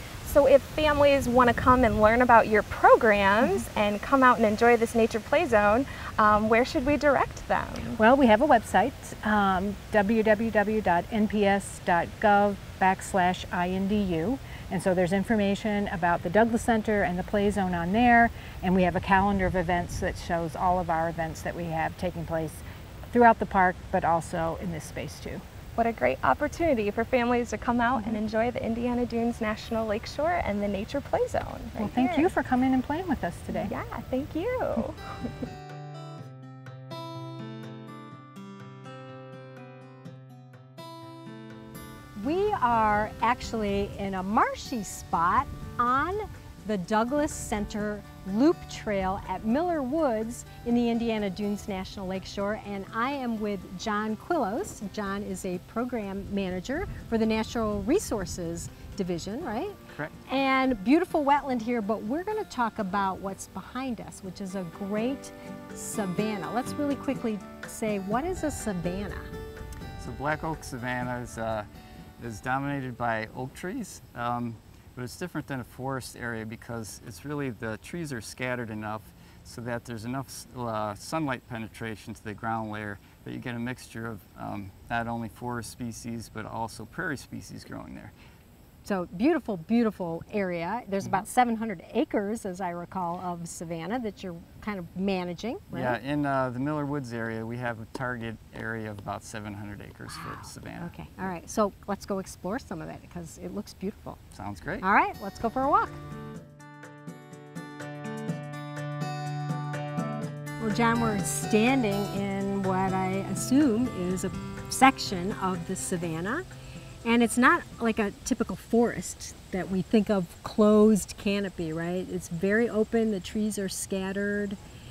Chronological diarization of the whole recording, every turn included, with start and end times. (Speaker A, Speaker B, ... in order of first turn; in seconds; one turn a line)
Speaker A: 0.2-8.0
Speaker B: 8.0-25.4
Speaker A: 25.8-32.3
Speaker B: 28.0-28.2
Speaker B: 31.8-33.7
Speaker A: 33.5-35.1
Speaker C: 42.2-69.3
Speaker D: 70.0-71.7
Speaker D: 72.2-88.1
Speaker C: 88.8-96.0
Speaker D: 95.7-100.9
Speaker C: 100.1-104.2
Speaker D: 104.3-104.9
Speaker C: 104.8-106.0
Speaker C: 110.6-116.4
Speaker C: 117.0-124.6